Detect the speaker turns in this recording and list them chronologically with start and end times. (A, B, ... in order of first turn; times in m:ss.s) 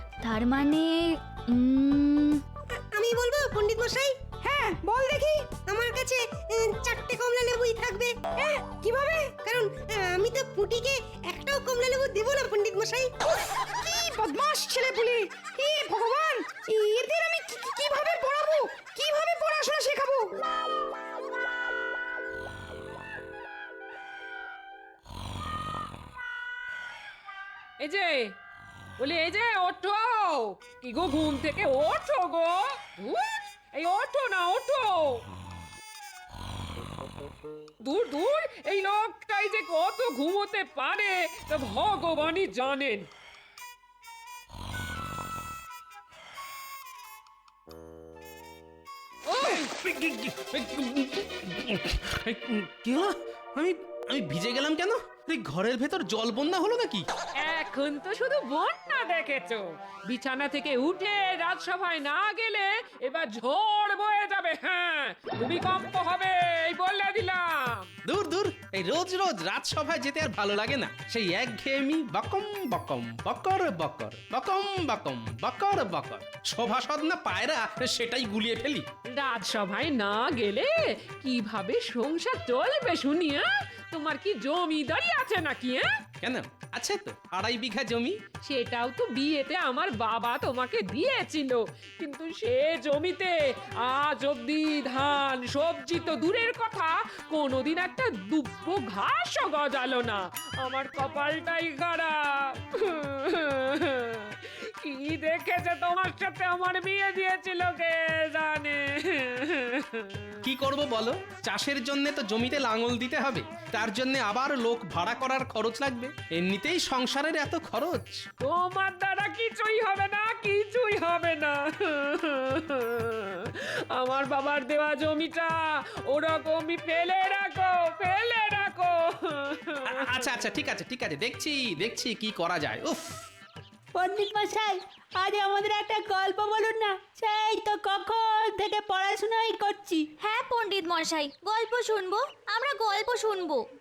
0:00.2-0:01.0 A
0:01.5-0:02.4 A
0:02.9-0:04.1 B
0:04.4-0:05.6 C
0:05.7-0:08.1 B
0:08.4-0:09.4 C
0:09.5-0:13.1 B
0:13.8-0:20.3 C
0:27.8-0:28.3 D
0:29.0-0:35.2 D
0:37.8-0:43.1 D
0:49.3-0:49.7 D
0:49.6-0:57.1 E
0:57.4-1:07.9 D
1:08.1-1:18.9 E
1:19.2-1:25.9 D
1:26.2-1:28.2 E
1:28.4-1:33.4 D
1:33.9-1:50.2 D
1:50.4-1:58.2 E
1:58.4-2:05.6 D
2:06.1-2:10.3 D
2:09.9-2:13.2 E
2:13.9-2:20.1 F
2:20.2-2:23.6 A